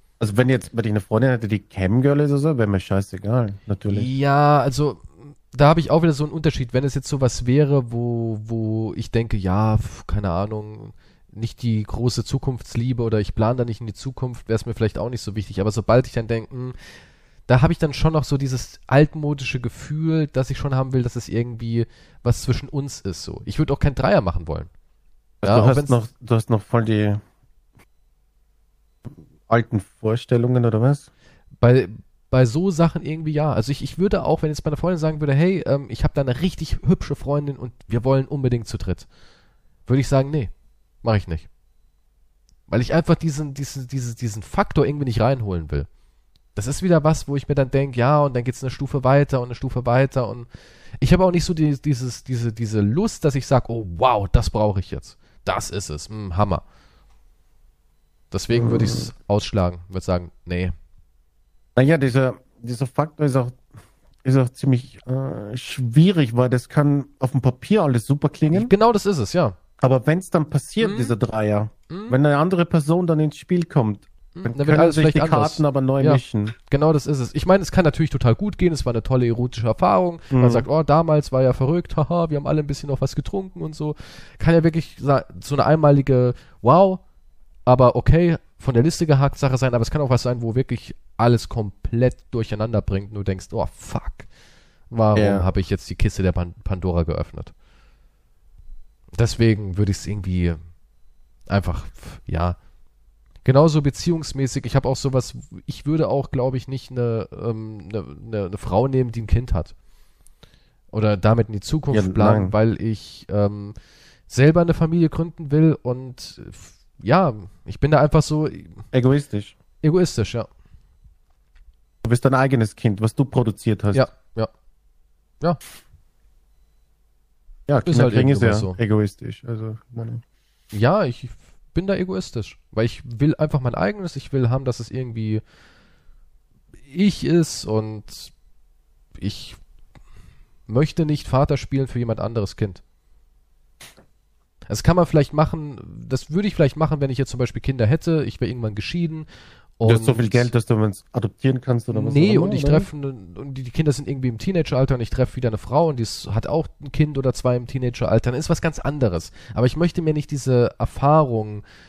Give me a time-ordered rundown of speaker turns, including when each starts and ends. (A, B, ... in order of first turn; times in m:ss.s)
0:00.2-0:04.1 A
0:03.9-0:16.8 B
0:17.5-0:24.7 B
0:25.4-0:27.2 A
0:25.4-0:26.0 B
0:29.5-0:31.1 A
0:31.6-0:39.1 B
0:39.9-0:40.5 B
0:41.0-0:41.5 B
0:42.7-0:45.9 B
0:46.5-0:50.5 B
0:51.0-0:56.6 B
0:58.3-1:00.7 B
0:58.5-0:59.1 A
1:01.8-1:03.6 A
1:04.2-1:08.7 A
1:08.5-1:09.6 B
1:09.8-1:16.5 A
1:10.8-1:11.1 B
1:11.9-1:12.2 B
1:14.4-1:27.0 B
1:20.3-1:20.7 A
1:27.6-1:34.3 B
1:34.9-1:37.5 B
1:35.1-1:35.4 A
1:39.1-1:40.6 B
1:41.5-1:42.6 B
1:43.4-1:49.7 B
1:50.9-1:53.7 B
1:51.9-1:52.5 A
1:54.3-1:58.8 B
1:58.9-1:59.6 A
1:59.8-2:00.5 B
2:02.0-2:04.1 A
2:03.9-2:04.5 B
2:07.7-2:10.2 A
2:07.8-2:08.8 B
2:10.7-2:15.4 B
2:16.9-2:18.3 B
2:19.2-2:19.6 B
2:20.7-2:22.8 B
2:24.7-2:29.3 B
2:29.8-2:30.5 B
2:29.8-2:32.9 A
2:31.9-2:41.6 B